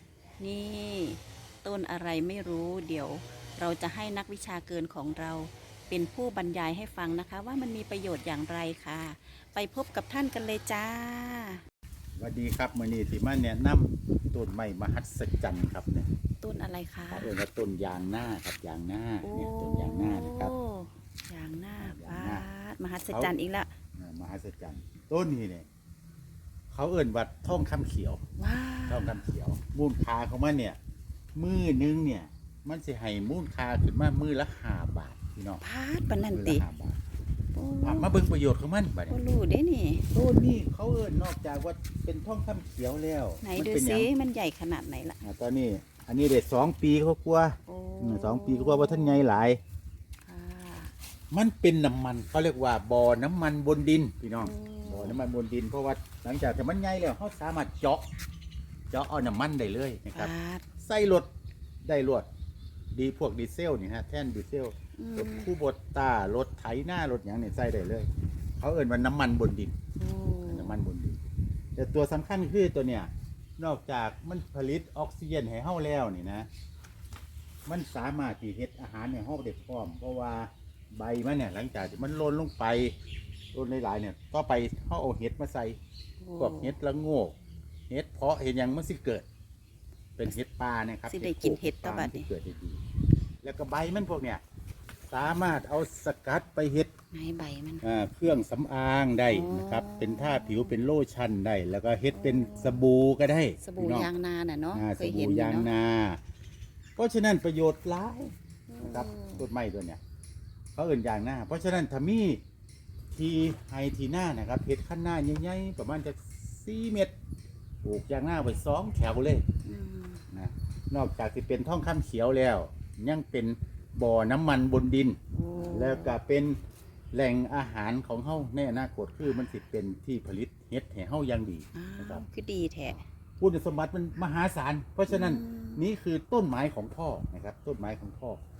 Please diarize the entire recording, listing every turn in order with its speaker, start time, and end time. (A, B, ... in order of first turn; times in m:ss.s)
0:00.4-0:11.6 A
0:12.2-0:16.1 B
0:16.4-0:17.3 A
0:17.1-0:20.5 B
0:19.2-0:23.7 A
0:21.8-0:22.4 B
0:24.0-0:25.7 B
0:26.7-0:28.2 B
0:28.4-0:29.3 A
0:28.9-0:30.8 B
0:31.4-0:35.6 B
0:35.6-0:36.6 A
0:36.3-0:37.0 B
0:37.5-0:38.1 A
0:37.8-0:39.2 B
0:39.1-0:40.1 A
0:40.1-0:44.1 B
0:43.4-0:45.2 A
0:45.2-0:49.6 B
0:47.6-0:49.2 A
0:50.2-0:50.9 A
0:51.3-0:58.0 B
0:54.4-0:55.2 A
0:58.9-1:01.3 B
1:00.1-1:00.6 A
1:01.8-1:02.2 B
1:02.9-1:09.8 B
1:05.0-1:05.5 A
1:10.0-1:10.8 A
1:10.4-1:11.2 B
1:11.8-1:16.5 B
1:17.6-1:22.9 B
1:23.5-1:25.8 B
1:26.2-1:26.8 A
1:26.4-1:27.3 B
1:27.9-1:29.2 B
1:30.2-1:32.8 B
1:31.1-1:32.3 A
1:33.4-1:34.4 B
1:35.1-1:36.9 B
1:37.1-1:37.8 A
1:37.8-1:44.1 B
1:39.3-1:40.7 A
1:42.1-1:42.8 A
1:43.6-1:45.7 A
1:44.7-1:46.2 B
1:47.0-1:50.0 B
1:48.7-1:49.4 A
1:50.7-1:52.4 B
1:53.1-1:57.1 B
1:57.8-1:59.4 B
1:59.6-2:00.2 A
2:00.3-2:06.6 B
2:05.3-2:06.2 A
2:07.1-2:12.2 B
2:11.7-2:13.0 A
2:13.4-2:18.4 B
2:15.1-2:15.9 A